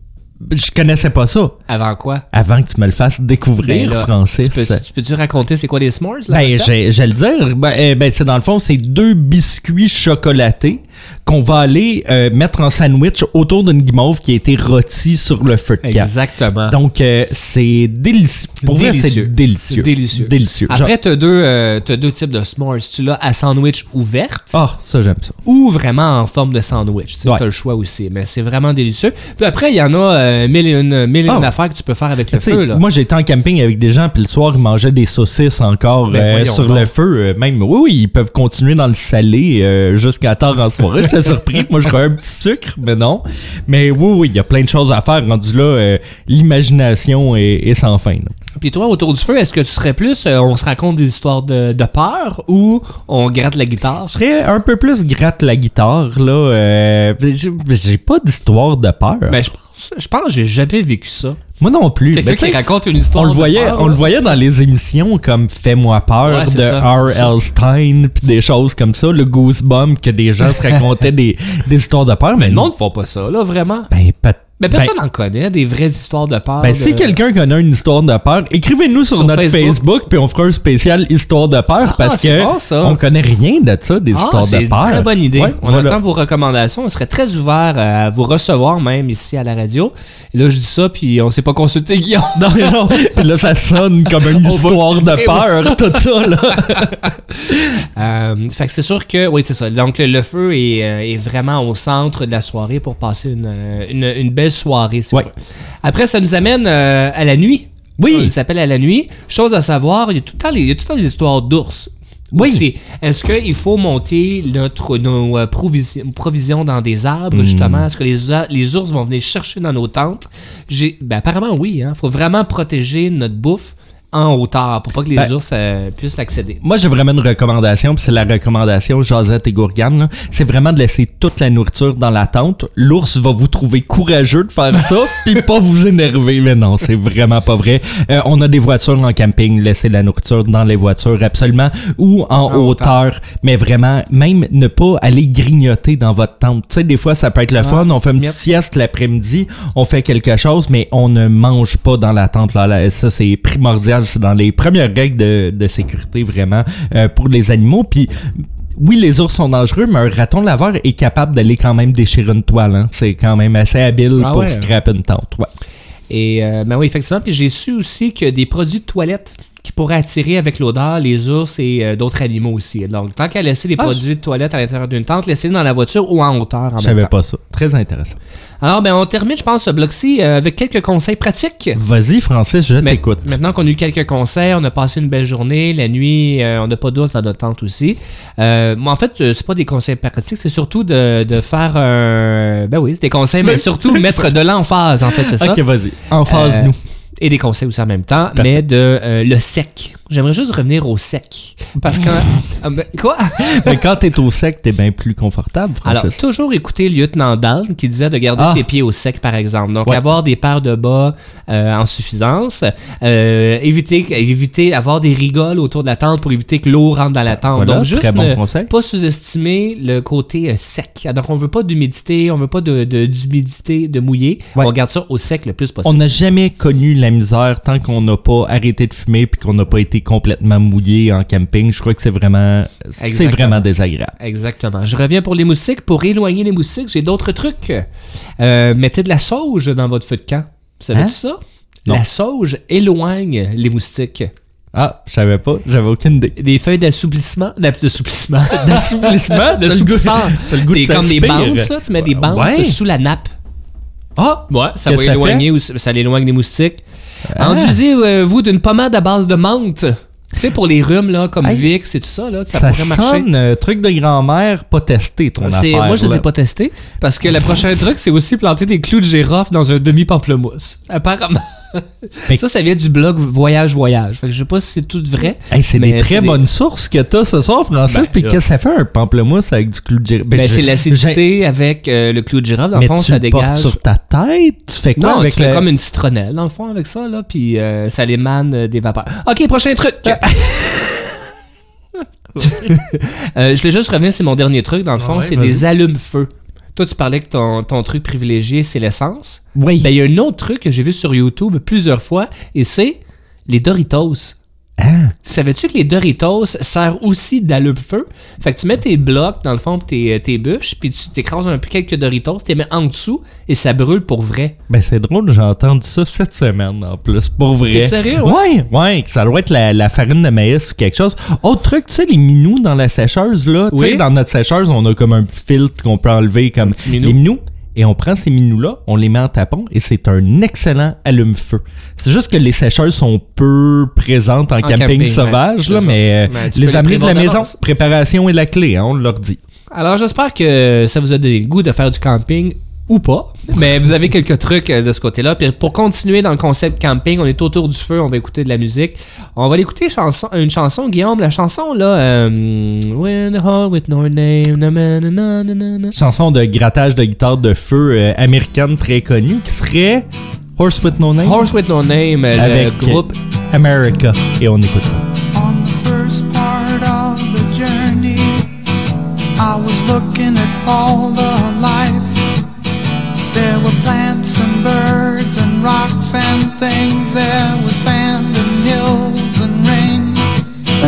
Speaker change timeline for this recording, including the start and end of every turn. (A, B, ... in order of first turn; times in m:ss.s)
0:00.4-0:01.6 A
0:01.7-0:02.2 B
0:02.3-0:04.8 A
0:03.6-0:06.7 B
0:06.3-0:16.1 A
0:15.8-0:16.8 B
0:16.7-0:20.9 A
0:18.6-0:24.6 B
0:24.5-0:25.4 A
0:25.4-0:32.8 B
0:32.3-0:48.3 A
0:36.1-0:36.9 B
0:48.6-0:54.2 B
0:54.1-0:59.4 A
0:59.3-1:01.4 B
1:01.6-1:02.6 A
1:02.1-1:04.0 B
1:03.1-1:12.7 A
1:06.2-1:07.3 B
1:12.4-1:13.9 B
1:13.9-1:14.9 A
1:14.6-1:17.2 B
1:16.6-1:26.0 A
1:19.1-1:19.8 B
1:21.8-1:23.0 B
1:24.1-1:33.0 B
1:32.3-1:37.7 A
1:34.2-1:35.9 B
1:36.7-1:37.1 B
1:38.0-2:06.6 B
1:48.0-1:48.3 A
1:52.3-1:52.6 A
1:57.3-1:57.8 A
2:06.6-2:38.1 A
2:22.5-2:23.0 B
2:27.6-2:28.4 B
2:38.8-2:45.5 A
2:44.2-2:44.7 B
2:46.1-2:57.1 B
2:56.8-2:58.2 A
2:58.6-3:01.8 B
3:01.8-3:03.2 A
3:02.8-3:23.8 B
3:13.4-3:14.2 A
3:15.1-3:16.8 A
3:21.8-3:22.2 A
3:23.4-3:26.2 A
3:25.8-3:46.0 B
3:28.4-3:28.6 A
3:37.4-3:38.7 A
3:45.8-3:54.1 A
3:53.0-3:57.8 B
3:58.4-4:04.3 B
4:04.7-4:06.3 A
4:06.4-4:13.3 B
4:08.5-4:12.8 A
4:14.2-4:15.4 A
4:14.5-4:16.8 B
4:17.3-4:17.8 A
4:17.4-4:23.3 B
4:21.4-4:21.7 A
4:22.5-4:26.2 A
4:25.4-4:36.4 B
4:35.5-4:41.2 A
4:37.9-4:38.4 B
4:40.3-4:43.8 B
4:42.7-4:45.6 A
4:45.0-4:50.3 B
4:50.0-4:50.9 A
4:52.4-4:52.7 A
4:52.4-5:04.4 B
4:55.0-4:55.6 A
4:59.5-4:59.9 A
5:04.8-5:05.1 A
5:05.2-5:14.6 B
5:14.7-5:39.4 A
5:17.7-5:18.4 B
5:23.7-5:24.0 B
5:26.6-5:27.2 B
5:34.6-5:37.5 B
5:39.7-5:56.0 B
5:55.9-6:01.5 A
6:01.2-6:03.1 B
6:02.3-6:05.0 A
6:05.3-6:08.5 C
6:09.4-6:12.3 C
6:13.3-6:20.3 C